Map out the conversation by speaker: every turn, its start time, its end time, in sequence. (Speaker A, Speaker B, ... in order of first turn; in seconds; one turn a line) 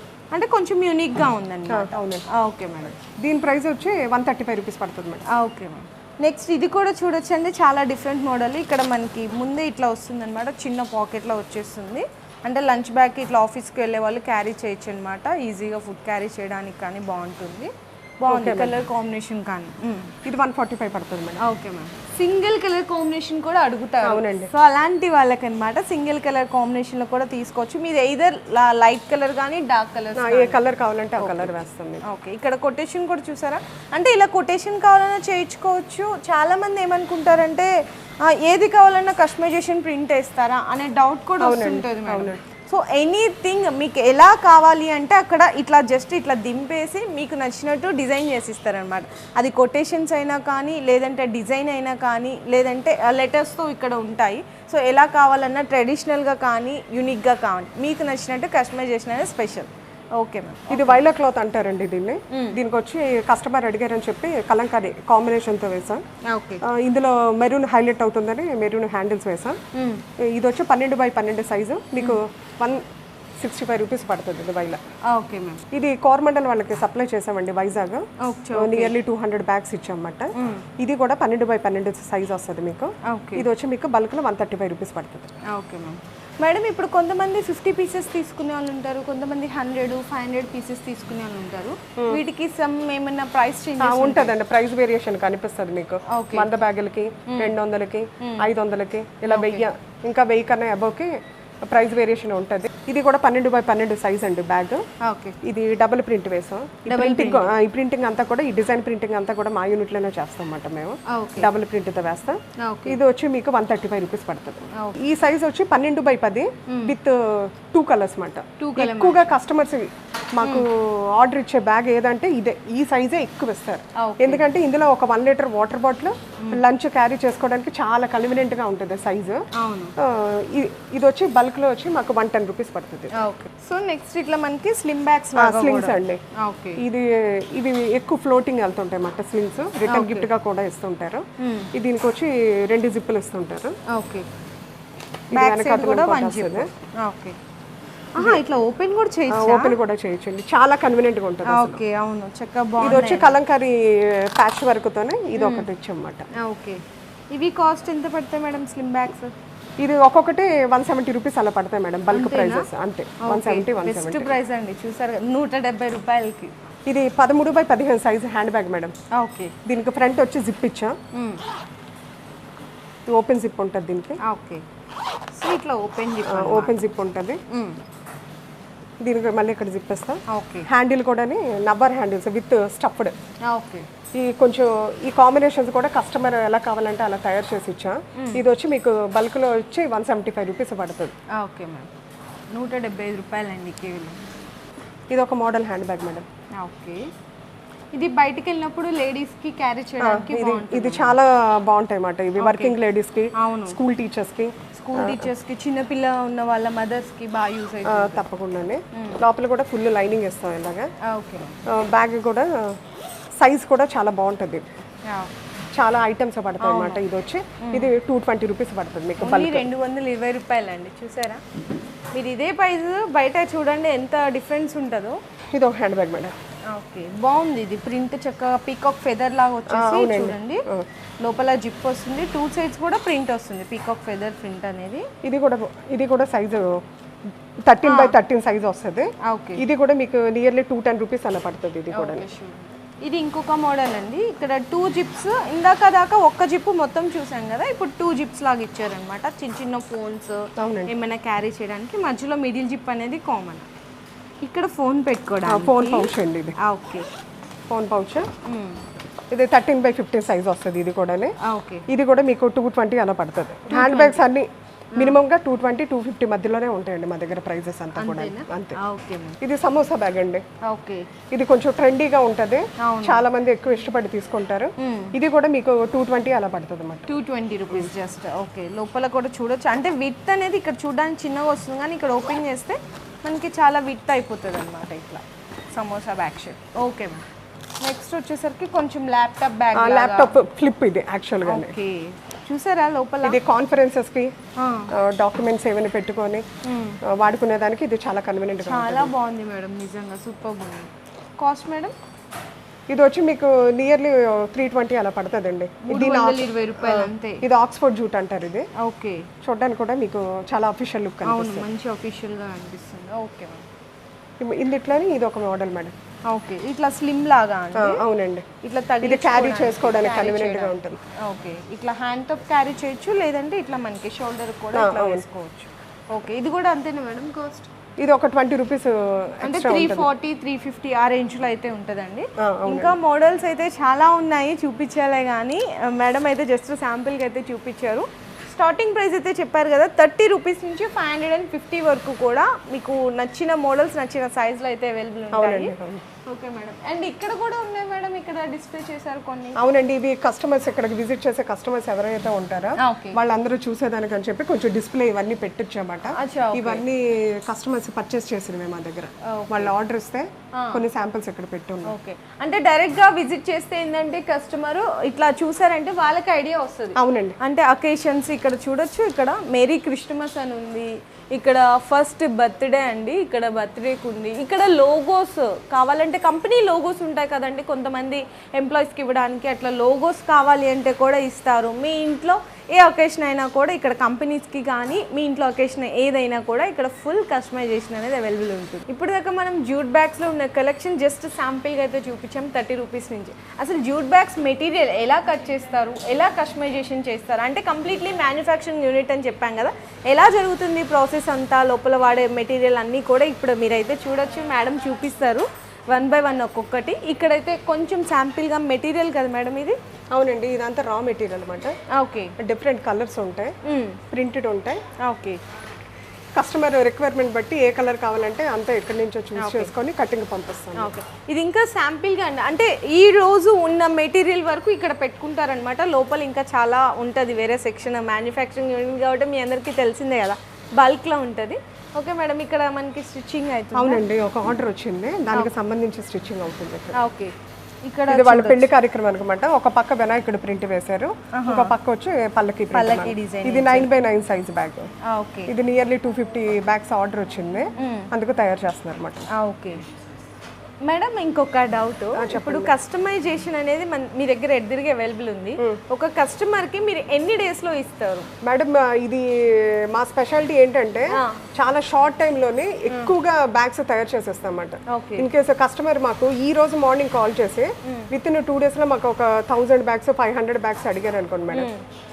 Speaker A: 0.3-3.0
Speaker B: 1.7-2.2
Speaker B: 3.2-5.2
Speaker A: 5.3-20.1
Speaker B: 18.3-18.7
Speaker B: 20.2-21.4
Speaker A: 21.4-30.6
Speaker B: 24.0-24.5
Speaker B: 30.2-32.0
Speaker A: 31.2-61.0
Speaker B: 41.4-42.4
Speaker B: 60.7-66.0
Speaker A: 62.3-62.6
Speaker A: 66.2-66.6
Speaker B: 66.6-69.6
Speaker A: 69.7-70.0
Speaker B: 70.2-72.8
Speaker B: 73.4-74.8
Speaker A: 75.1-75.6
Speaker B: 75.7-85.3
Speaker A: 78.2-78.9
Speaker A: 80.3-80.6
Speaker A: 83.0-83.5
Speaker A: 85.5-94.3
Speaker B: 93.8-101.1
Speaker A: 96.1-96.5
Speaker A: 97.3-97.5
Speaker A: 98.2-98.5
Speaker A: 99.2-99.6
Speaker B: 101.7-104.8
Speaker A: 105.0-105.4
Speaker B: 105.4-129.4
Speaker A: 106.9-107.5
Speaker A: 111.1-111.5
Speaker A: 112.6-113.0
Speaker A: 114.7-115.0
Speaker A: 116.7-116.9
Speaker A: 118.6-119.2
Speaker A: 120.4-120.7
Speaker A: 124.0-124.5
Speaker A: 129.5-129.9
Speaker B: 130.0-133.1
Speaker A: 133.1-136.8
Speaker B: 135.3-136.2
Speaker B: 136.8-143.8
Speaker A: 139.8-140.3
Speaker A: 141.4-141.7
Speaker A: 143.9-144.3
Speaker B: 145.3-146.7
Speaker A: 145.3-147.4
Speaker A: 148.1-149.8
Speaker B: 149.3-151.8
Speaker A: 151.4-153.4
Speaker B: 152.8-156.3
Speaker A: 155.4-155.7
Speaker A: 156.3-159.3
Speaker B: 159.8-164.3
Speaker A: 162.1-162.7
Speaker A: 163.2-166.5
Speaker B: 166.8-168.9
Speaker A: 169.1-169.5
Speaker B: 169.6-171.0
Speaker A: 171.1-171.4
Speaker B: 173.1-174.2
Speaker A: 174.2-174.6
Speaker A: 175.3-176.8
Speaker B: 176.2-177.4
Speaker A: 177.5-177.8
Speaker B: 179.0-183.1
Speaker A: 180.3-180.7
Speaker A: 183.4-183.9
Speaker B: 184.1-191.1
Speaker A: 188.2-188.4
Speaker A: 191.3-191.9
Speaker A: 192.5-194.2
Speaker B: 195.1-196.3
Speaker A: 196.6-197.1
Speaker A: 197.9-201.2
Speaker B: 200.0-205.3
Speaker A: 202.4-202.8
Speaker A: 203.3-203.8
Speaker A: 204.7-208.2
Speaker B: 207.8-210.9
Speaker A: 208.9-209.2
Speaker A: 211.0-211.6
Speaker B: 211.7-212.8
Speaker B: 213.4-214.7
Speaker B: 215.7-219.7
Speaker A: 216.6-217.0
Speaker A: 217.6-217.9
Speaker A: 219.2-221.4
Speaker A: 222.1-225.2
Speaker B: 225.5-226.3
Speaker A: 226.7-230.7
Speaker B: 229.7-230.9
Speaker A: 231.2-235.1
Speaker B: 235.2-236.8
Speaker B: 237.6-242.3
Speaker A: 237.8-238.1
Speaker A: 239.2-239.6
Speaker A: 241.9-253.7
Speaker B: 250.6-250.9
Speaker A: 254.4-257.1
Speaker B: 255.4-256.5
Speaker B: 257.7-258.3
Speaker A: 258.4-258.8
Speaker B: 259.3-261.3
Speaker A: 261.4-261.9
Speaker B: 261.9-268.8
Speaker A: 263.7-264.3
Speaker A: 267.9-269.4
Speaker B: 269.4-270.4
Speaker A: 270.6-271.1
Speaker B: 271.3-277.1
Speaker A: 272.8-273.2
Speaker A: 274.8-275.1
Speaker A: 277.1-287.2
Speaker A: 287.8-290.4
Speaker B: 289.7-291.7
Speaker A: 291.4-293.4
Speaker B: 293.2-294.3
Speaker A: 294.6-294.9
Speaker B: 294.9-296.4
Speaker A: 296.6-297.0
Speaker B: 297.0-299.1
Speaker A: 298.6-301.9
Speaker B: 302.9-308.7
Speaker A: 305.8-307.4
Speaker A: 308.8-309.3
Speaker B: 309.4-311.6
Speaker A: 311.2-313.6
Speaker B: 314.4-315.9
Speaker A: 316.2-318.0
Speaker B: 317.7-318.4
Speaker A: 318.6-327.7
Speaker B: 319.0-321.0
Speaker B: 324.7-325.2
Speaker B: 328.0-330.1
Speaker A: 329.4-345.7
Speaker B: 332.4-333.0
Speaker B: 345.3-346.0
Speaker A: 346.2-349.6
Speaker B: 349.6-361.9
Speaker A: 352.8-353.2
Speaker A: 356.1-356.8
Speaker A: 359.2-359.7
Speaker A: 360.5-360.8
Speaker A: 361.9-409.8
Speaker B: 366.9-367.4
Speaker B: 410.1-411.8
Speaker A: 411.9-412.3
Speaker B: 412.4-413.5
Speaker A: 413.6-414.0
Speaker B: 414.1-414.8
Speaker A: 415.0-415.4
Speaker B: 416.3-420.9
Speaker A: 419.4-419.7
Speaker A: 420.8-434.0
Speaker B: 433.7-437.0
Speaker A: 436.9-438.7
Speaker B: 438.1-444.9
Speaker A: 441.3-441.7
Speaker A: 442.7-443.9
Speaker A: 445.0-445.5
Speaker B: 445.5-449.2
Speaker A: 447.8-448.1
Speaker A: 449.3-449.8
Speaker A: 450.8-458.3
Speaker B: 452.1-452.7
Speaker B: 458.4-471.7
Speaker A: 461.1-461.4
Speaker A: 464.9-465.3
Speaker A: 471.5-471.8